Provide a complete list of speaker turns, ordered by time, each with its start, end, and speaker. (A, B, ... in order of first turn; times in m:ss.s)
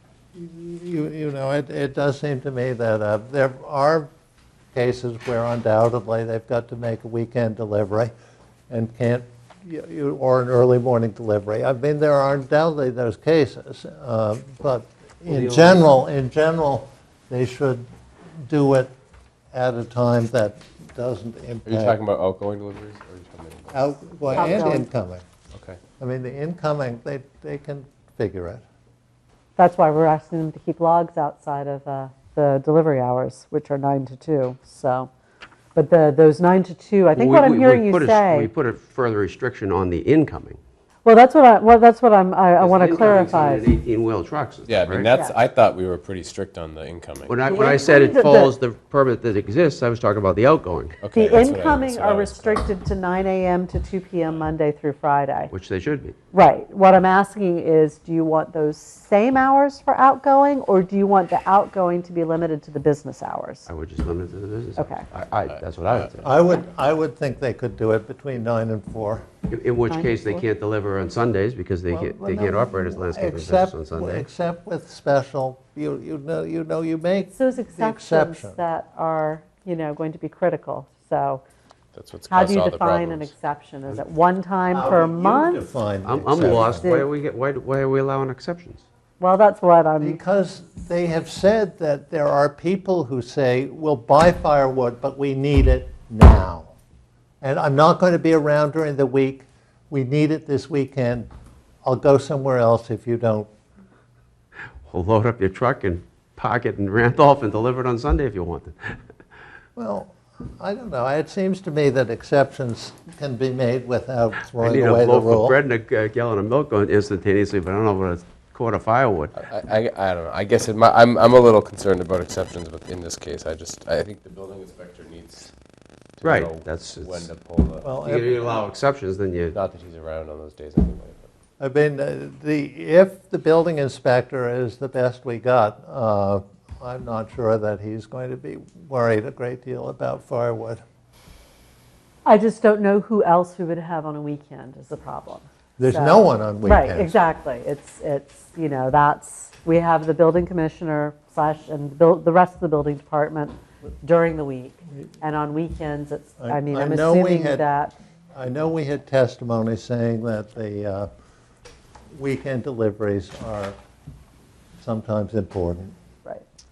0:00.4-0:04.1 A
0:04.7-0:08.1 A
0:08.7-0:17.9 A
0:15.3-0:15.8 B
0:18.4-0:18.9 A
0:19.5-0:22.0 A
0:21.7-0:24.4 C
0:23.7-0:25.2 A
0:24.4-0:24.9 D
0:25.5-0:25.8 C
0:26.0-0:28.6 A
0:29.6-0:35.1 D
0:35.8-0:38.5 D
0:37.2-0:40.6 B
0:41.0-0:43.7 D
0:42.6-0:45.1 B
0:44.7-0:47.4 C
0:47.3-0:51.0 B
0:47.5-0:48.5 D
0:51.0-0:52.6 C
0:51.1-0:55.5 D
0:55.5-0:56.2 B
0:56.3-1:03.7 D
1:03.7-1:06.3 B
1:04.8-1:05.0 D
1:06.2-1:09.2 A
1:09.5-1:14.3 B
1:09.9-1:10.4 D
1:11.9-1:18.6 A
1:17.3-1:21.4 D
1:21.9-1:23.3 C
1:22.3-1:25.6 D
1:24.7-1:26.9 A
1:26.0-1:28.8 B
1:26.8-1:27.1 D
1:29.2-1:30.2 D
1:30.0-1:36.7 A
1:37.4-1:41.3 A
1:41.8-1:43.5 A
1:44.9-1:49.0 B
1:49.8-1:55.6 A
1:54.6-1:59.3 B
1:59.4-2:05.5 C
2:06.2-2:07.9 C
2:06.2-2:07.3 B
2:07.8-2:08.7 A
2:08.0-2:09.6 B
2:09.5-2:11.3 C
2:11.6-2:20.8 A
2:22.3-2:37.9 D
2:25.8-2:27.2 A
2:36.4-2:37.6 A
2:38.4-2:41.1 A
2:42.2-2:43.8 A
2:44.8-2:45.9 A